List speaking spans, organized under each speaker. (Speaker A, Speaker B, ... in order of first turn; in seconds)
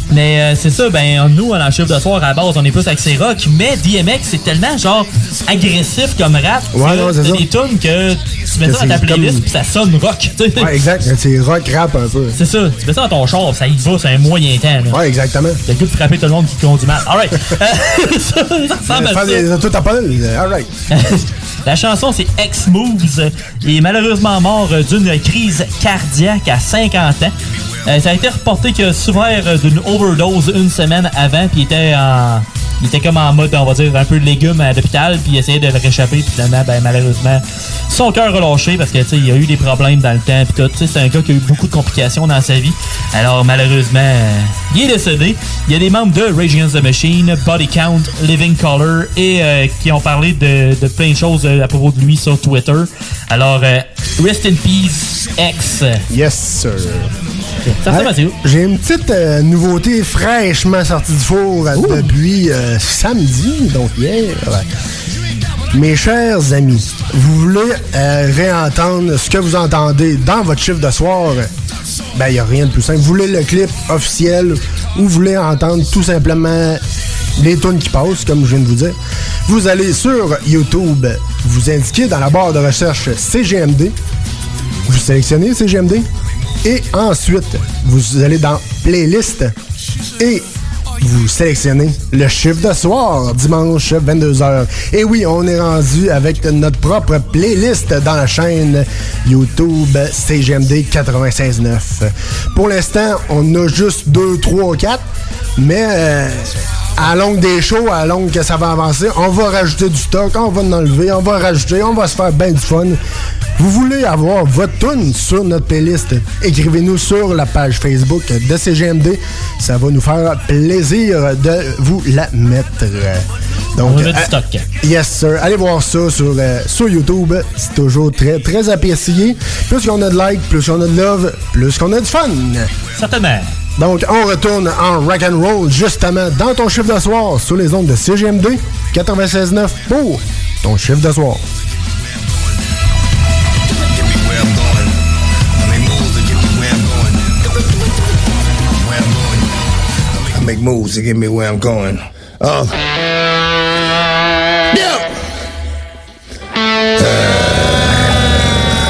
Speaker A: 0.1-10.7, 12.3-15.0, 15.6-19.4, 20.9-56.0, 57.6-58.4, 61.8-62.1, 123.8-124.7, 132.9-133.5
Speaker B: 6.7-7.5, 8.6-9.4, 10.6-12.4, 14.9-15.6, 18.9-20.7, 56.1-57.1, 57.9-64.7, 65.7-71.5, 72.1-76.8, 77.4-83.9, 84.8-86.1, 86.6-89.5, 90.2-90.5, 91.0-105.0, 105.6-113.0, 113.6-132.7, 133.8-141.4
Speaker C: 143.9-144.9, 145.6-147.2, 148.8-149.5, 150.2-152.7, 154.7-155.1, 157.0-157.9